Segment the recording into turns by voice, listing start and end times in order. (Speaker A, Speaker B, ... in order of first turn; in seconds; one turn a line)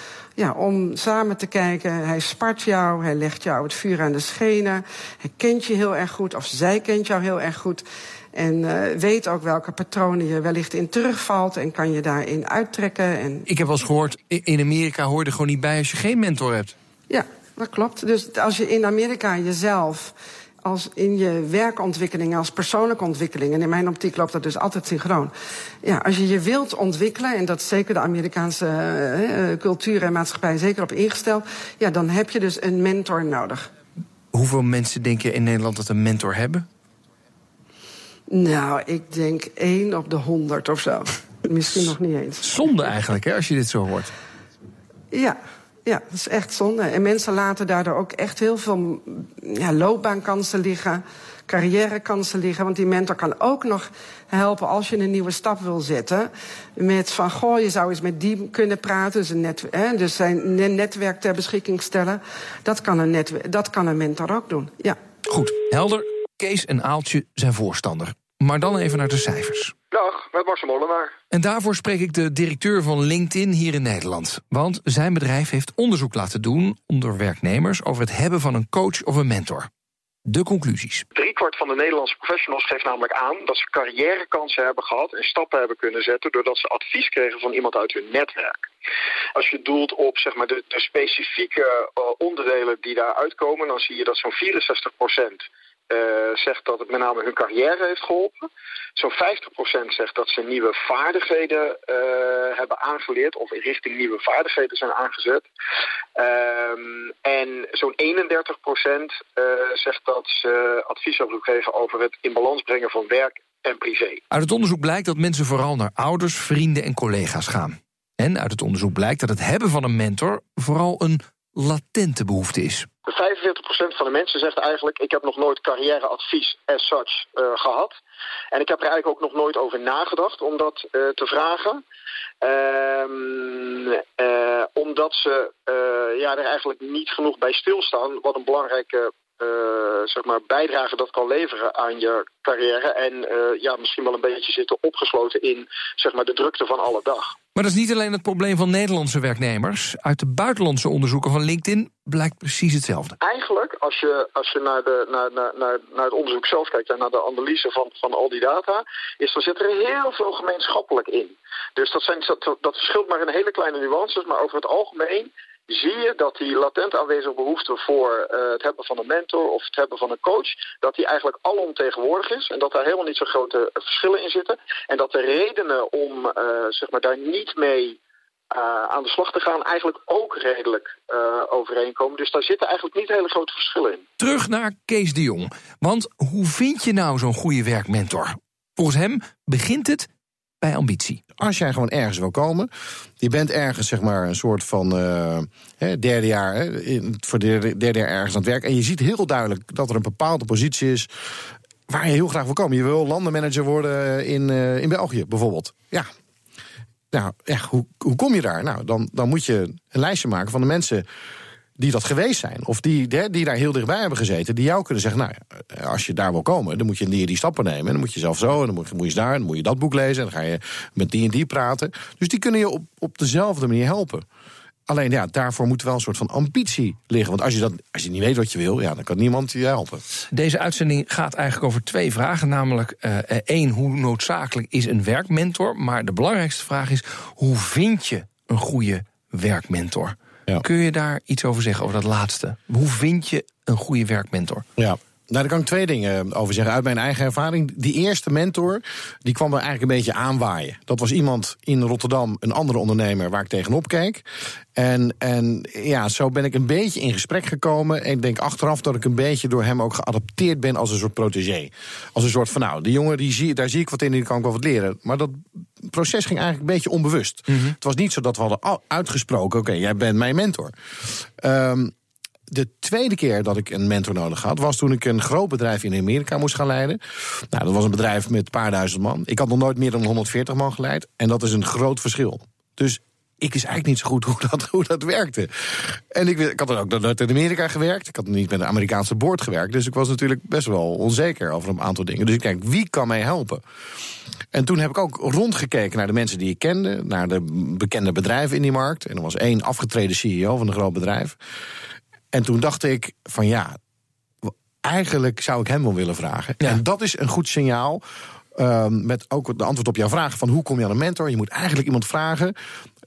Speaker A: 0.4-13.4
Speaker B: 13.5-16.7
Speaker A: 17.1-25.3
Speaker A: 25.8-33.6
Speaker B: 34.3-36.6
Speaker A: 38.3-42.5
Speaker B: 42.4-44.1
Speaker A: 45.1-65.0
Speaker B: 65.3-69.7
Speaker C: 69.9-71.1
Speaker B: 71.3-79.7
Speaker B: 80.2-81.0
Speaker C: 81.1-88.7
Speaker C: 89.3-105.5
Speaker C: 106.2-114.2
Speaker B: 114.3-122.9
Speaker C: 123.1-128.0
Speaker C: 128.5-131.8
Speaker C: 132.4-147.3
Speaker B: 147.5-153.2
Speaker C: 153.2-178.0
Speaker C: 178.5-184.0
Speaker B: 184.2-190.1
Speaker B: 190.6-191.2
Speaker D: 191.4-201.1
Speaker D: 201.9-206.1
Speaker D: 207.1-211.1
Speaker D: 211.8-224.2
Speaker D: 224.9-230.0
Speaker B: 230.3-244.6
Speaker D: 244.8-271.9
Speaker B: 267.5-267.7
Speaker D: 272.5-293.6
Speaker D: 294.5-301.4
Speaker D: 302.3-303.8
Speaker D: 304.4-308.0
Speaker D: 308.5-312.5